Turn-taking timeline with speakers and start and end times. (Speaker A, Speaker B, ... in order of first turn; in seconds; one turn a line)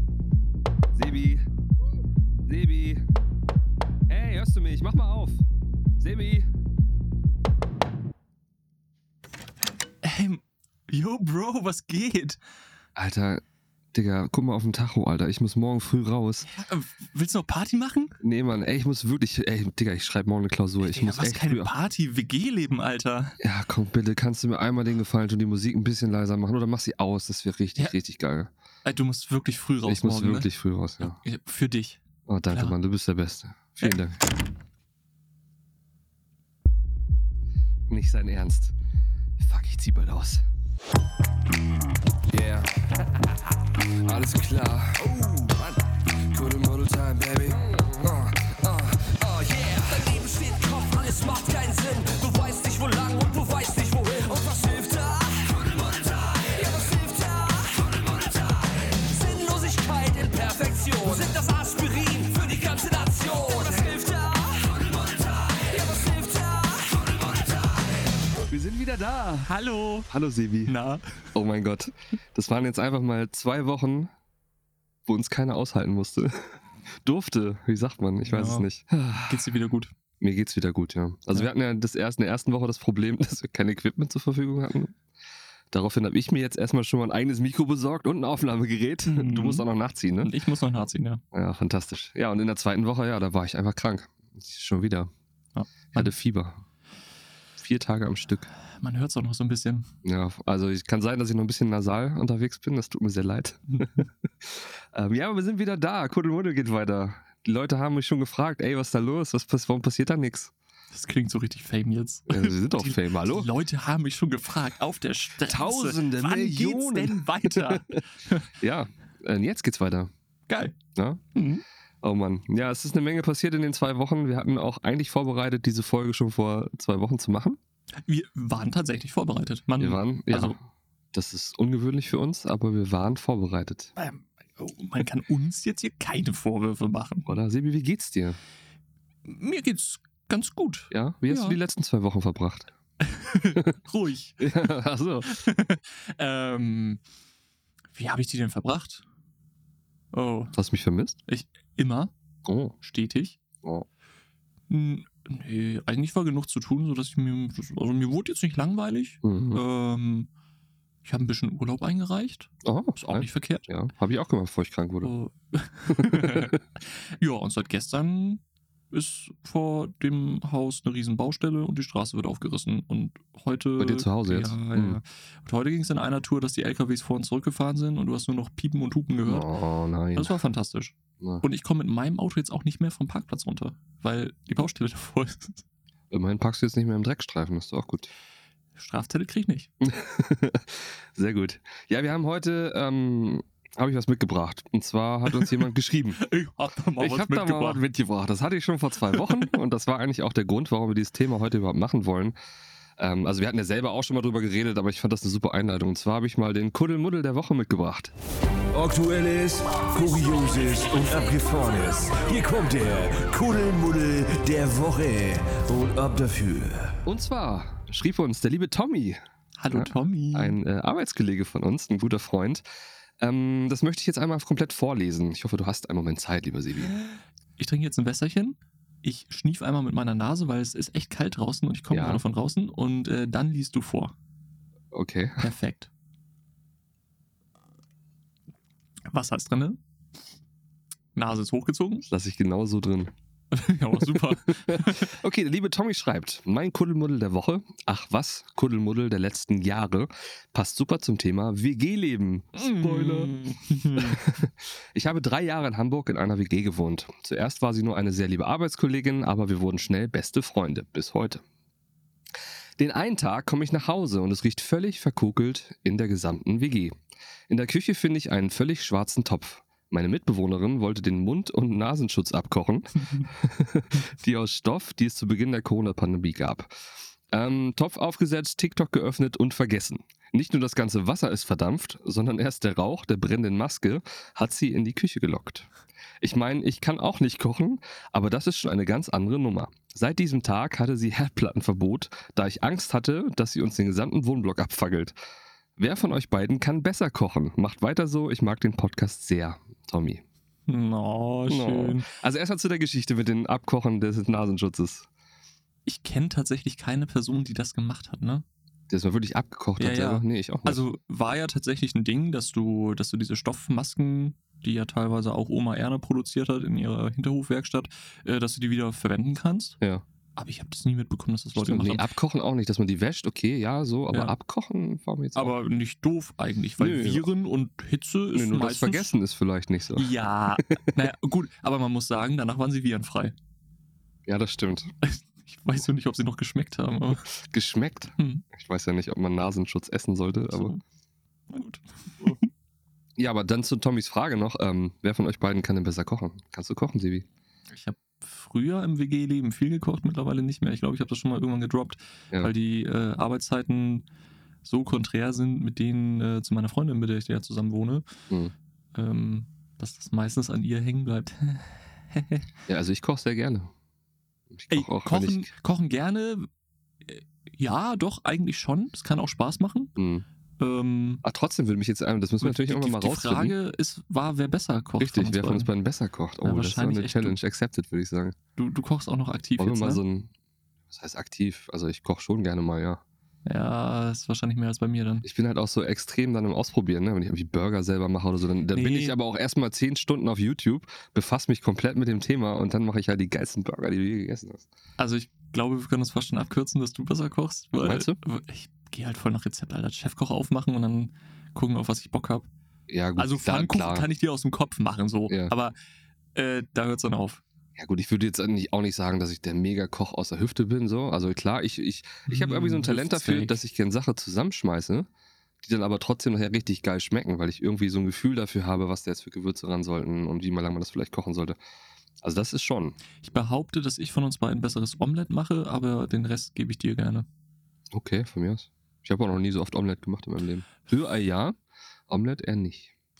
Speaker A: 0.9-1.4
Speaker A: 2.5-3.0
Speaker A: 4.1-5.5
Speaker A: 6.0-6.5
Speaker B: 10.0-12.4
Speaker A: 13.0-13.4
Speaker A: 13.9-16.5
Speaker B: 16.4-18.2
Speaker A: 18.2-21.7
Speaker B: 20.8-23.4
Speaker A: 23.4-28.5
Speaker B: 28.8-30.5
Speaker A: 29.8-31.2
Speaker B: 31.0-32.8
Speaker A: 32.3-34.2
Speaker A: 37.9-38.8
Speaker A: 39.4-40.5
Speaker A: 42.3-42.7
Speaker A: 44.0-45.2
Speaker C: 45.2-45.6
Speaker A: 46.3-49.0
Speaker C: 49.0-67.7
Speaker A: 68.5-69.5
Speaker B: 69.4-70.1
Speaker A: 70.1-70.7
Speaker B: 70.7-71.3
Speaker A: 71.3-74.1
Speaker A: 75.0-79.5
Speaker B: 78.2-78.7
Speaker B: 79.2-79.9
Speaker A: 80.2-85.0
Speaker A: 85.7-90.3
Speaker B: 89.1-89.7
Speaker B: 90.2-91.2
Speaker A: 91.3-95.1
Speaker B: 95.5-96.1
Speaker A: 95.9-96.6
Speaker A: 97.6-98.5
Speaker B: 98.7-99.9
Speaker A: 100.0-110.5
Speaker B: 103.7-104.0
Speaker B: 110.9-118.5
Speaker A: 112.3-113.5
Speaker A: 115.5-118.0
Speaker A: 118.6-120.1
Speaker B: 120.5-120.7
Speaker A: 121.0-121.2
Speaker B: 121.3-121.6
Speaker A: 122.0-127.6
Speaker B: 128.1-130.6
Speaker A: 129.8-133.9
Speaker B: 134.0-137.3
Speaker A: 137.3-138.4
Speaker B: 139.2-141.6
Speaker A: 140.9-142.7
Speaker B: 143.0-144.5
Speaker A: 144.4-145.3
Speaker B: 145.2-147.0
Speaker B: 147.9-149.0
Speaker B: 150.1-150.6
Speaker A: 150.6-151.2
Speaker B: 151.3-152.1
Speaker A: 152.5-152.8
Speaker B: 152.8-153.4
Speaker B: 154.7-160.3
Speaker A: 159.2-159.6
Speaker B: 161.1-163.7
Speaker A: 162.6-165.1
Speaker B: 165.0-179.5
Speaker A: 165.9-166.6
Speaker A: 173.8-175.0
Speaker A: 179.2-180.3
Speaker B: 180.2-185.6
Speaker A: 186.1-188.1
Speaker B: 188.8-189.7
Speaker A: 189.8-196.2
Speaker B: 196.2-197.8
Speaker A: 197.0-202.4
Speaker B: 199.1-199.5
Speaker A: 203.0-208.1
Speaker D: 208.7-216.9
Speaker C: 209.7-212.7
Speaker A: 217.1-219.2
Speaker B: 219.6-220.6
Speaker A: 219.7-222.7
Speaker A: 223.2-227.0
Speaker B: 227.1-234.1
Speaker A: 231.9-232.2
Speaker A: 234.9-235.5
Speaker B: 235.4-235.9
Speaker B: 239.1-239.8
Speaker B: 241.2-242.1
Speaker A: 242.1-243.1
Speaker B: 243.5-245.2
Speaker A: 244.0-253.3
Speaker B: 252.6-254.4
Speaker A: 253.9-261.4
Speaker A: 262.8-267.0
Speaker A: 267.5-285.7
Speaker B: 273.0-273.3
Speaker A: 286.2-295.2
Speaker A: 295.8-300.2
Speaker B: 300.7-302.1
Speaker A: 301.5-305.1
Speaker B: 305.9-308.4
Speaker A: 308.9-310.8
Speaker B: 309.8-319.8
Speaker B: 320.4-322.1
Speaker A: 321.6-325.5
Speaker B: 325.4-329.1
Speaker A: 326.8-327.3
Speaker A: 328.3-330.1
Speaker B: 329.9-333.4
Speaker A: 334.2-334.9
Speaker B: 335.0-337.2
Speaker A: 337.3-340.8
Speaker B: 338.2-338.4
Speaker B: 340.5-340.8
Speaker B: 341.5-342.5
Speaker A: 343.2-347.2
Speaker B: 347.7-354.1
Speaker B: 354.6-358.1
Speaker B: 358.9-362.4
Speaker A: 362.7-363.7
Speaker A: 364.5-365.5
Speaker B: 364.7-366.5
Speaker B: 367.1-369.9
Speaker A: 370.0-370.2
Speaker B: 370.6-371.2
Speaker A: 371.2-373.6
Speaker B: 372.4-375.7
Speaker A: 375.0-378.4
Speaker B: 376.4-377.4
Speaker B: 378.6-380.0
Speaker A: 379.6-380.3
Speaker A: 380.9-383.0
Speaker B: 383.4-385.2
Speaker A: 385.2-394.7
Speaker B: 388.7-389.2
Speaker B: 395.0-402.5
Speaker A: 397.8-398.2
Speaker A: 402.9-404.1
Speaker B: 403.2-405.8
Speaker B: 406.4-407.4
Speaker A: 407.8-415.1
Speaker B: 412.3-413.6
Speaker A: 415.6-421.6
Speaker A: 422.2-422.9
Speaker B: 423.2-427.2
Speaker A: 427.9-431.6
Speaker A: 432.1-432.9